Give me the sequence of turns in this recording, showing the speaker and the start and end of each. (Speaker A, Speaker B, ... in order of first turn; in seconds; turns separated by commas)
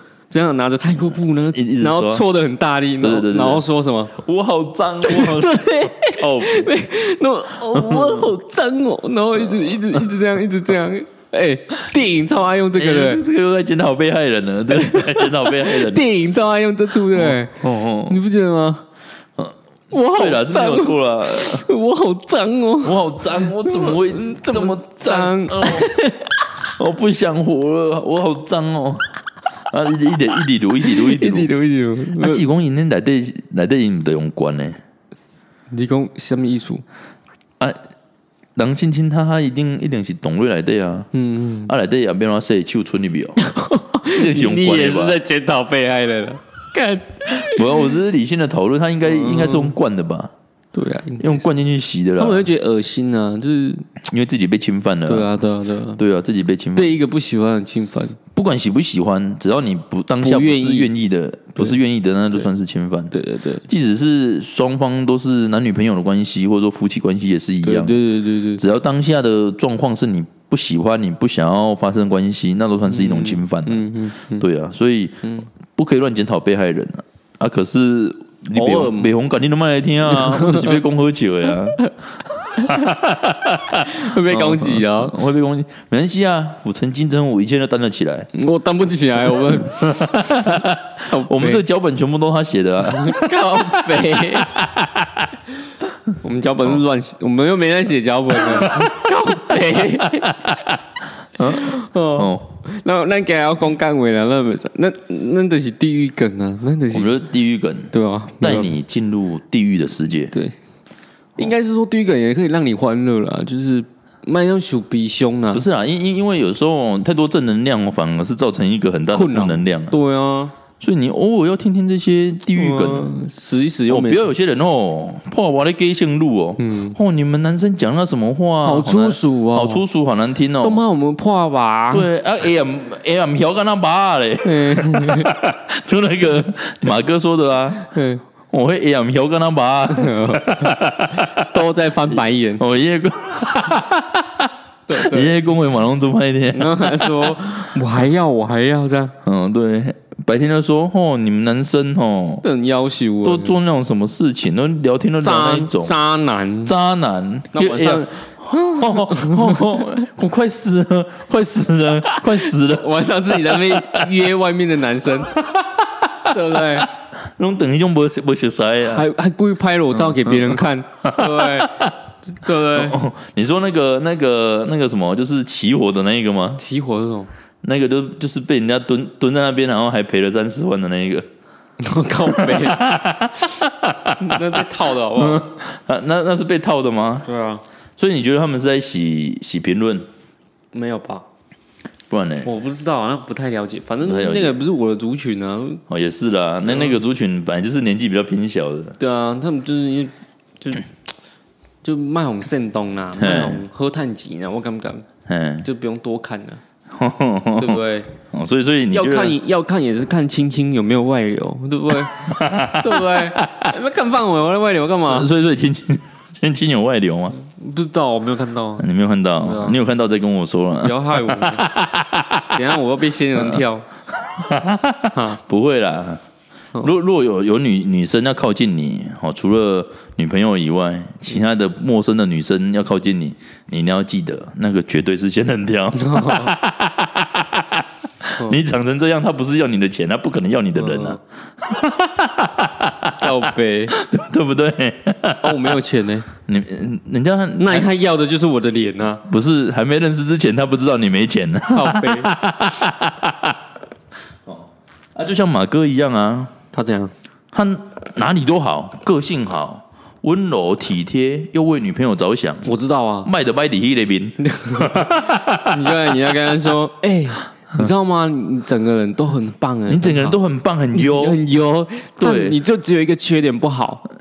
Speaker A: 0.3-4.1, Speaker B: 1.5-2.2, Speaker B: 3.0-6.7, Speaker A: 5.0-13.2, Speaker B: 7.7-8.3, Speaker B: 12.7-16.1, Speaker A: 14.7-18.9, Speaker B: 17.1-18.2, Speaker B: 19.4-21.7, Speaker A: 19.9-26.2, Speaker B: 22.8-29.1, Speaker B: 29.7-31.5, Speaker A: 30.8-32.4, Speaker B: 32.1-34.8, Speaker A: 35.7-36.8, Speaker B: 38.6-41.1, Speaker A: 41.1-41.7, Speaker B: 41.7-43.4, Speaker A: 43.4-47.9, Speaker B: 44.1-45.2, Speaker B: 47.3-50.3, Speaker A: 49.0-49.7, Speaker A: 50.7-51.5, Speaker B: 51.2-52.5, Speaker A: 52.2-53.9, Speaker B: 54.0-55.3, Speaker A: 55.1-56.0, Speaker B: 56.0-57.0, Speaker A: 56.7-58.2, Speaker B: 58.3-63.1, Speaker A: 60.2-60.9, Speaker A: 63.1-63.6, Speaker B: 63.7-68.0, Speaker A: 67.6-68.6, Speaker B: 68.6-81.8, Speaker A: 72.9-74.5, Speaker A: 78.5-79.1, Speaker A: 80.1-80.8, Speaker B: 82.5-88.3, Speaker A: 82.5-82.9, Speaker A: 83.8-85.2, Speaker A: 88.3-91.6, Speaker B: 89.5-94.2, Speaker A: 92.9-95.0, Speaker A: 96.2-100.6, Speaker B: 98.5-99.0, Speaker B: 100.1-100.7, Speaker B: 101.4-102.5, Speaker A: 101.4-107.2, Speaker B: 106.9-110.3, Speaker A: 107.9-108.7, Speaker A: 111.4-115.6, Speaker B: 115.5-120.0, Speaker A: 119.1-120.5, Speaker B: 120.8-123.2, Speaker A: 122.5-124.3, Speaker B: 123.9-130.8, Speaker A: 126.6-127.0, Speaker A: 128.6-129.8, Speaker A: 130.6-132.1, Speaker B: 131.9-137.9, Speaker A: 134.4-135.3, Speaker A: 137.8-138.2, Speaker B: 138.5-141.5, Speaker A: 139.9-142.6, Speaker B: 142.6-147.4, Speaker A: 144.9-145.3, Speaker A: 146.5-149.1, Speaker B: 149.2-152.4, Speaker A: 152.4-153.6, Speaker B: 153.2-155.9, Speaker A: 155.2-156.7, Speaker B: 156.6-164.1, Speaker A: 157.5-159.8, Speaker A: 162.1-165.4, Speaker B: 165.6-165.8, Speaker A: 166.2-166.9, Speaker B: 167.4-169.1, Speaker A: 168.9-172.9, Speaker B: 170.3-171.9, Speaker B: 172.6-176.6, Speaker A: 176.6-177.3, Speaker B: 177.6-181.3, Speaker A: 181.8-182.8, Speaker B: 182.3-184.4, Speaker A: 184.2-185.4, Speaker B: 185.2-187.3, Speaker A: 187.3-187.6, Speaker B: 188.0-190.1, Speaker A: 190.7-191.3, Speaker B: 192.1-192.5, Speaker A: 192.4-195.8, Speaker B: 194.0-194.6, Speaker B: 195.9-199.0, Speaker A: 196.6-197.0, Speaker A: 199.0-200.9, Speaker A: 201.8-205.1, Speaker B: 203.2-203.6, Speaker B: 205.3-205.7, Speaker A: 205.6-206.6, Speaker B: 206.9-209.3, Speaker A: 207.6-208.1, Speaker A: 208.9-215.3, Speaker B: 212.2-213.7, Speaker B: 215.1-217.4, Speaker A: 217.3-218.9, Speaker B: 218.8-222.6, Speaker A: 219.4-219.8, Speaker A: 220.8-221.7, Speaker A: 222.5-223.9, Speaker B: 224.4-226.2, Speaker A: 225.1-225.4, Speaker B: 226.8-243.3, Speaker A: 235.9-236.5, Speaker A: 240.8-241.2, Speaker A: 243.2-243.9, Speaker B: 243.9-245.7, Speaker A: 245.4-246.3, Speaker B: 246.4-247.9, Speaker A: 247.6-249.2, Speaker B: 249.3-253.6, Speaker A: 251.7-252.3, Speaker B: 254.5-256.5, Speaker A: 256.7-257.1, Speaker B: 257.5-262.7, Speaker A: 262.6-263.3, Speaker B: 263.2-265.7, Speaker A: 264.4-270.4, Speaker B: 269.9-271.4, Speaker A: 270.9-274.0, Speaker B: 272.2-272.6